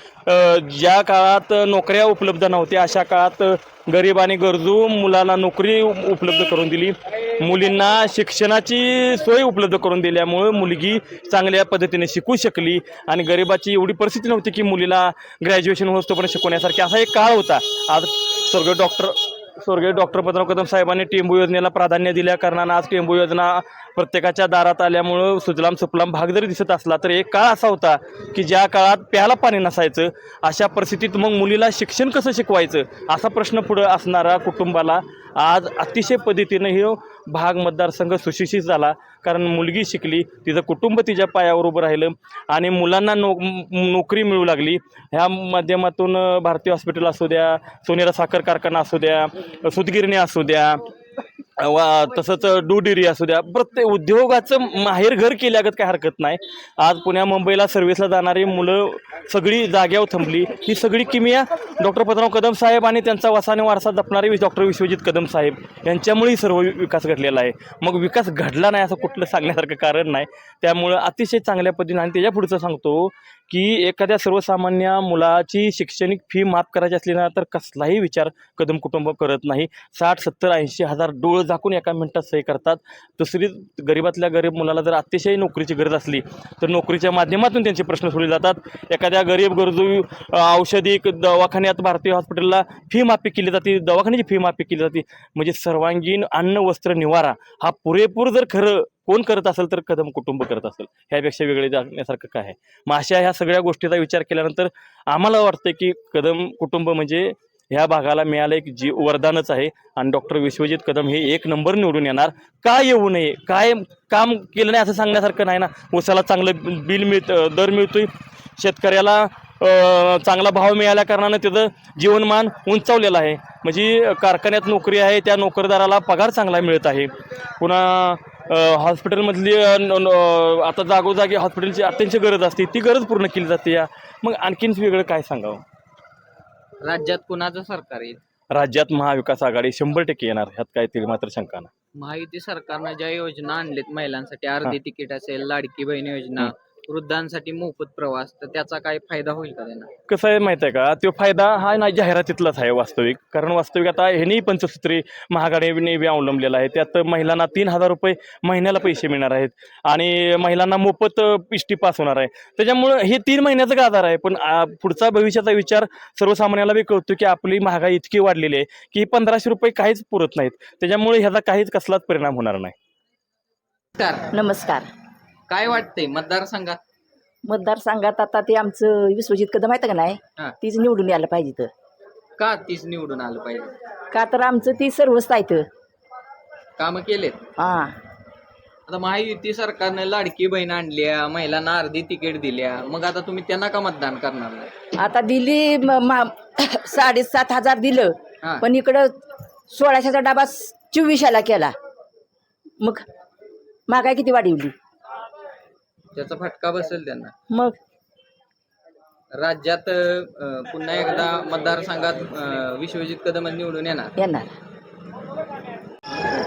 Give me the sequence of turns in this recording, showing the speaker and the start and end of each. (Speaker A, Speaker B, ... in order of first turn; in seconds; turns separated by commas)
Speaker A: 0.3-50.8, Speaker A: 51.6-135.6, Speaker B: 136.8-138.2, Speaker A: 138.5-141.7, Speaker B: 142.0-149.9, Speaker A: 150.1-172.7, Speaker B: 173.9-174.3, Speaker C: 174.3-174.9, Speaker B: 175.5-176.8, Speaker C: 177.5-181.7, Speaker B: 182.4-183.7, Speaker C: 184.1-185.7, Speaker B: 186.8-187.4, Speaker C: 187.6-188.0, Speaker B: 188.9-194.7, Speaker C: 195.0-199.1, Speaker C: 199.7-201.7, Speaker C: 203.9-204.8, Speaker B: 206.2-207.3, Speaker C: 207.5-207.8, Speaker B: 209.4-214.2, Speaker C: 214.2-214.5